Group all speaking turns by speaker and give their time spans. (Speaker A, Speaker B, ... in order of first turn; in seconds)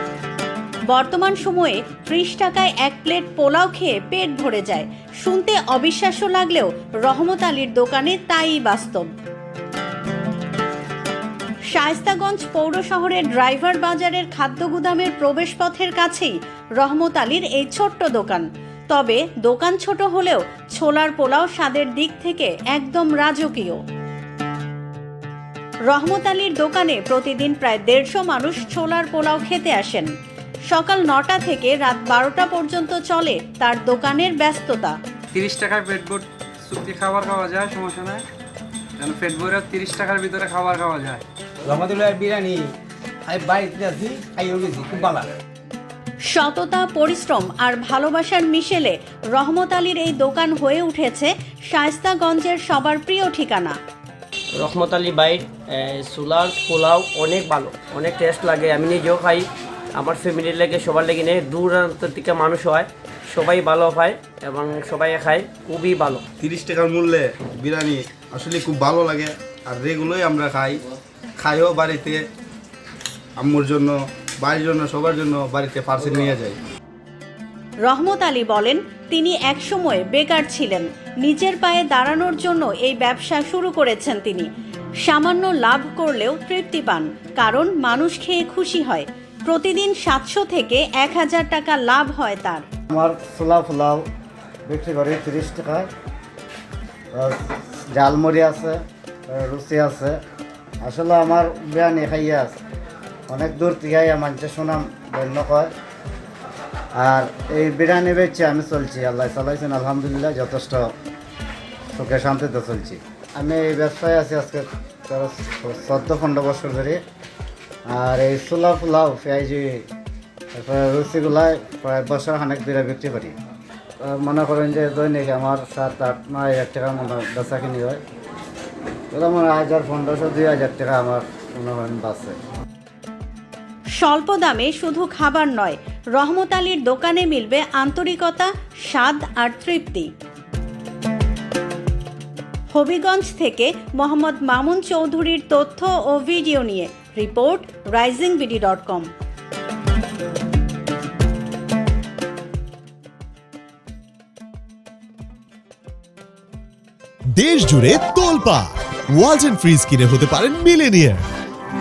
Speaker A: 0.9-9.1, 11.7-23.8, 25.9-30.1, 30.7-35.0, 46.3-53.8, 77.8-84.5, 85.0-92.6, 134.0-140.1, 142.7-149.1
Speaker B: 35.4-38.2, 39.0-41.2
Speaker C: 41.6-42.6, 43.3-45.3
Speaker D: 54.6-66.2
Speaker E: 66.4-70.8, 71.4-72.2, 73.4-76.6
Speaker F: 92.9-94.0, 94.7-95.9, 97.1-100.2, 100.8-102.6, 103.3-105.7, 107.0-110.9, 111.9-117.0, 117.9-119.9, 120.5-123.3, 124.0-128.0, 129.1-132.4
Speaker G: 157.3-161.2